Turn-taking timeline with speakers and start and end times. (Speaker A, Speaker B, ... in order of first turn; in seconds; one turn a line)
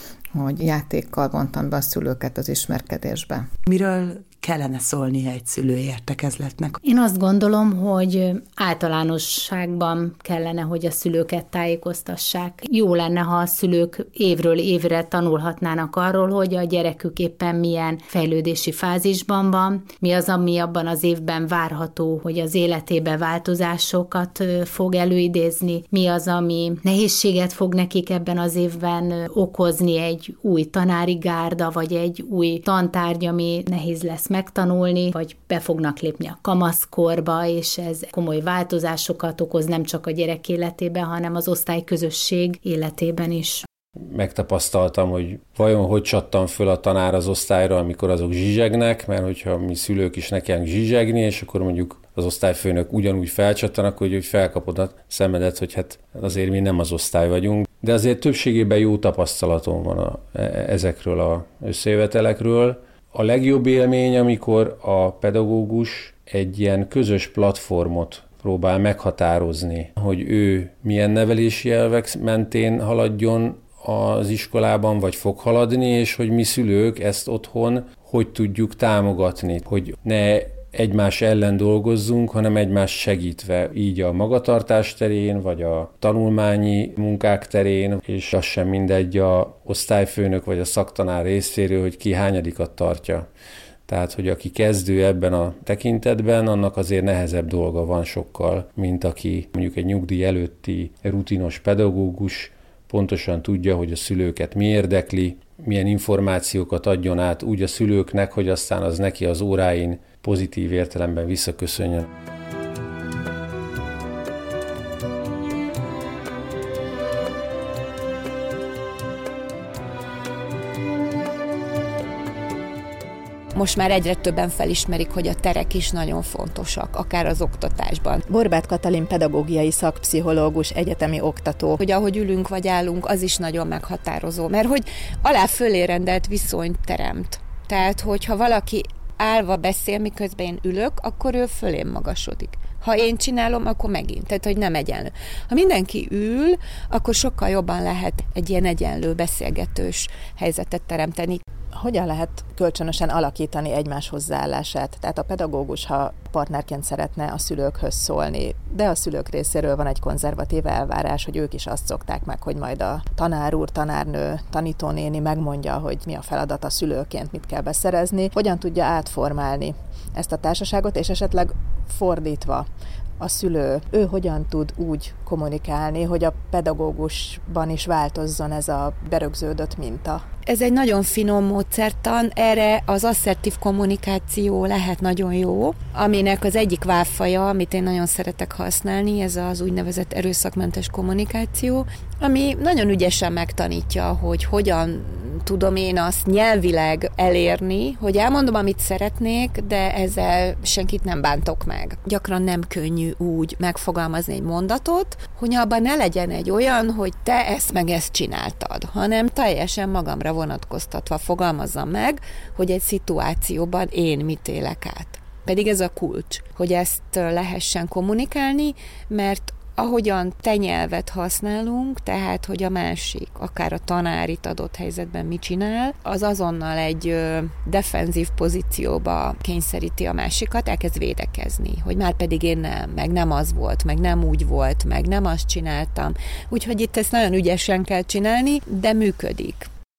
Speaker A: 0.3-3.5
Speaker B: 3.6-6.8
Speaker C: 6.8-43.6
Speaker D: 44.1-93.3
Speaker D: 93.9-112.1
Speaker E: 123.5-128.2
Speaker F: 128.3-131.8
Speaker E: 131.8-151.4
Speaker F: 151.7-172.7
Speaker F: 173.2-180.2
Speaker E: 180.4-239.7